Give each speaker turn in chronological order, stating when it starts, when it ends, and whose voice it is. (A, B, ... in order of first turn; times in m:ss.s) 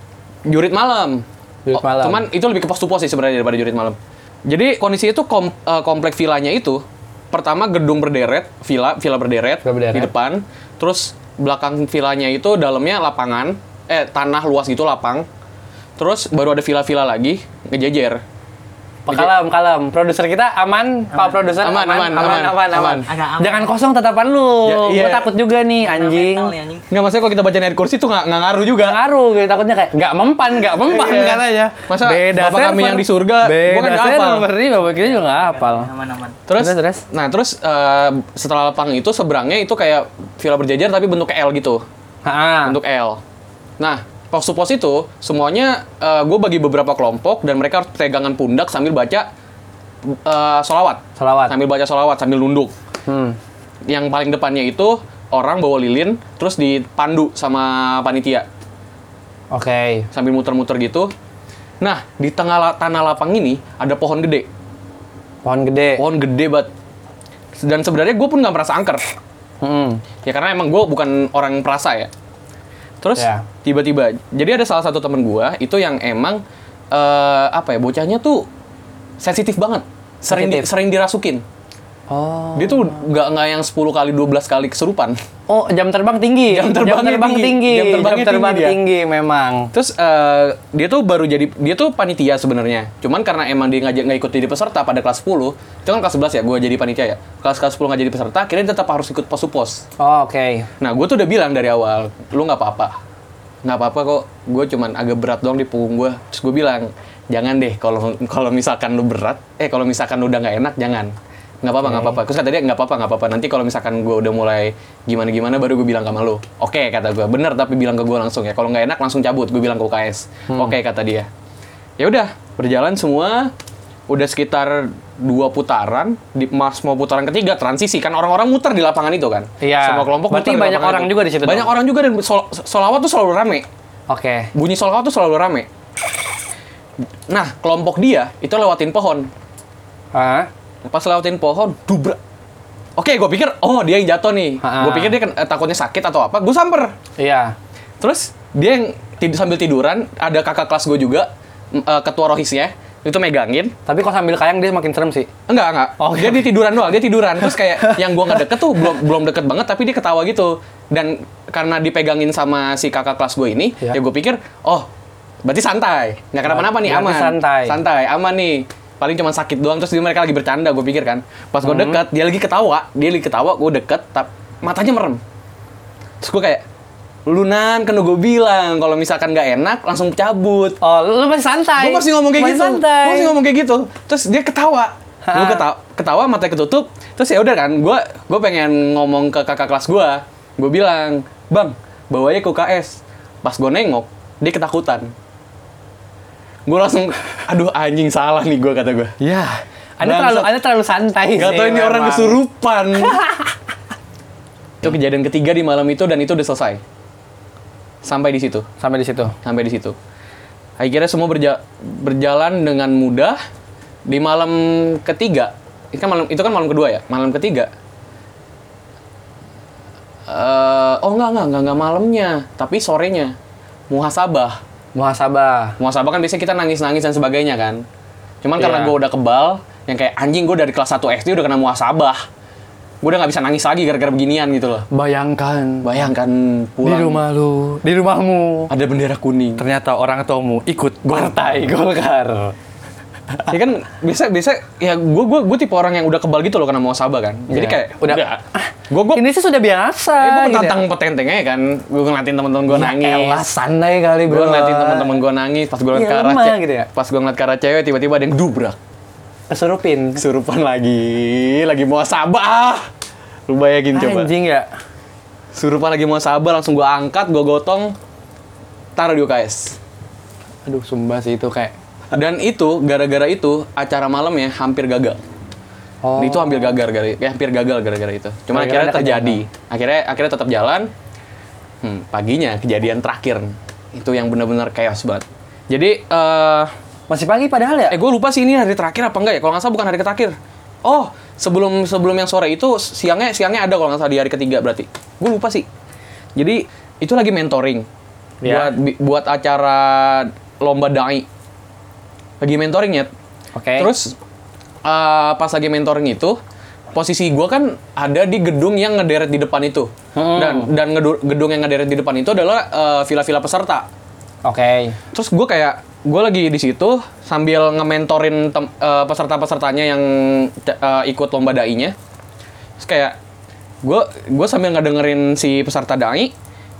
0:00.5-0:15.3 A
0:01.7-0:02.3 B
0:09.6-0:10.1 B
0:16.0-0:18.2 A
0:19.1-0:26.6 B
0:19.1-0:19.3 A
0:21.6-0:23.1 A
0:23.1-0:23.7 C
0:24.6-0:25.3 A
0:25.8-0:26.9 C
0:26.9-0:29.0 A
0:28.8-0:35.9 B
0:30.8-0:34.5 A
0:34.9-0:36.4 C
0:36.5-0:41.8 A
0:36.5-0:37.0 B
0:42.2-0:42.8 B
0:42.6-0:43.2 A
0:43.8-0:49.3 A
0:50.1-0:52.7 A
0:51.2-0:51.6 B
0:53.1-0:53.4 B
0:53.9-0:58.5 A
0:59.5-1:00.1 B
1:00.1-1:01.1 A
1:01.8-1:04.5 A
1:05.4-1:06.0 B
1:06.0-1:06.7 A
1:07.6-1:09.0 A
1:09.6-1:10.0 B
1:10.2-1:12.1 A
1:13.0-1:18.5 A
1:13.2-1:13.4 B
1:19.2-1:21.4 A
1:20.3-1:20.7 B
1:22.1-1:23.0 B
1:22.6-1:25.2 A
1:25.5-1:29.7 B
1:26.5-1:28.8 A
1:29.7-1:39.8 A
1:40.0-1:40.7 B
1:40.8-1:42.9 A
1:43.6-2:01.3 A
1:51.8-1:52.2 B
2:00.5-2:00.8 B
2:02.0-2:03.5 A
2:04.1-2:13.7 A
2:09.6-2:11.7 B
2:14.1-2:14.5 B
2:14.5-2:15.7 A
2:17.3-2:19.3 A
2:20.1-2:20.5 B
2:20.9-2:22.2 A
2:23.0-2:27.0 A
2:24.6-2:25.2 B
2:27.2-2:27.6 B
2:28.0-2:33.7 A
2:33.9-2:35.3 B
2:35.5-2:44.9 A
2:36.0-2:36.5 B
2:45.4-2:55.2 A
2:46.4-2:47.8 B
2:51.6-2:52.0 B
2:56.2-2:56.6 A
2:57.3-3:00.8 A
3:00.8-3:03.3 B
3:01.8-3:15.1 A
3:05.2-3:05.6 B
3:16.7-3:19.2 A
3:19.2-3:22.4 B
3:20.0-3:20.6 A
3:21.4-3:23.2 A
3:23.1-3:23.4 B
3:24.8-3:26.8 A
3:28.0-3:28.7 A
3:28.8-3:29.4 B
3:29.4-3:30.0 A
3:30.8-3:33.4 A
3:34.1-3:37.7 A
3:40.3-3:43.4 A
3:43.9-3:44.6 A
3:45.0-3:45.8 B
3:45.8-3:47.8 A
3:48.4-3:52.2 A
3:48.6-3:48.9 B
3:53.0-3:54.9 A
3:54.9-3:56.0 B
3:55.8-3:57.2 A
3:56.8-3:58.7 B
3:58.7-3:59.6 A
3:59.6-4:02.6 B
4:03.5-4:09.2 A
4:07.5-4:10.8 B
4:10.2-4:13.5 A
4:12.7-4:15.2 B
4:14.3-4:18.8 A
4:15.9-4:16.9 B
4:19.5-4:20.2 B
4:20.2-4:22.9 A
4:23.5-4:24.3 A
4:23.9-4:24.7 B
4:25.5-4:28.0 A
4:29.0-4:29.8 A
4:30.7-4:31.7 B
4:32.1-4:35.2 A
4:36.0-4:36.8 B
4:36.2-4:40.9 A
4:38.5-4:39.4 B
4:41.8-4:46.7 A
4:47.1-4:48.0 B
4:47.9-4:55.7 A
4:56.4-4:57.9 A
4:58.4-4:58.7 B
4:58.4-5:01.3 A
5:02.4-5:03.1 A
5:03.6-5:03.9 B
5:03.8-5:04.2 A
5:04.8-5:06.4 A
5:06.9-5:13.9 A
5:10.2-5:10.7 B
5:14.4-5:15.0 B
5:15.1-5:22.0 A
5:22.8-5:23.2 A
5:23.8-5:26.3 A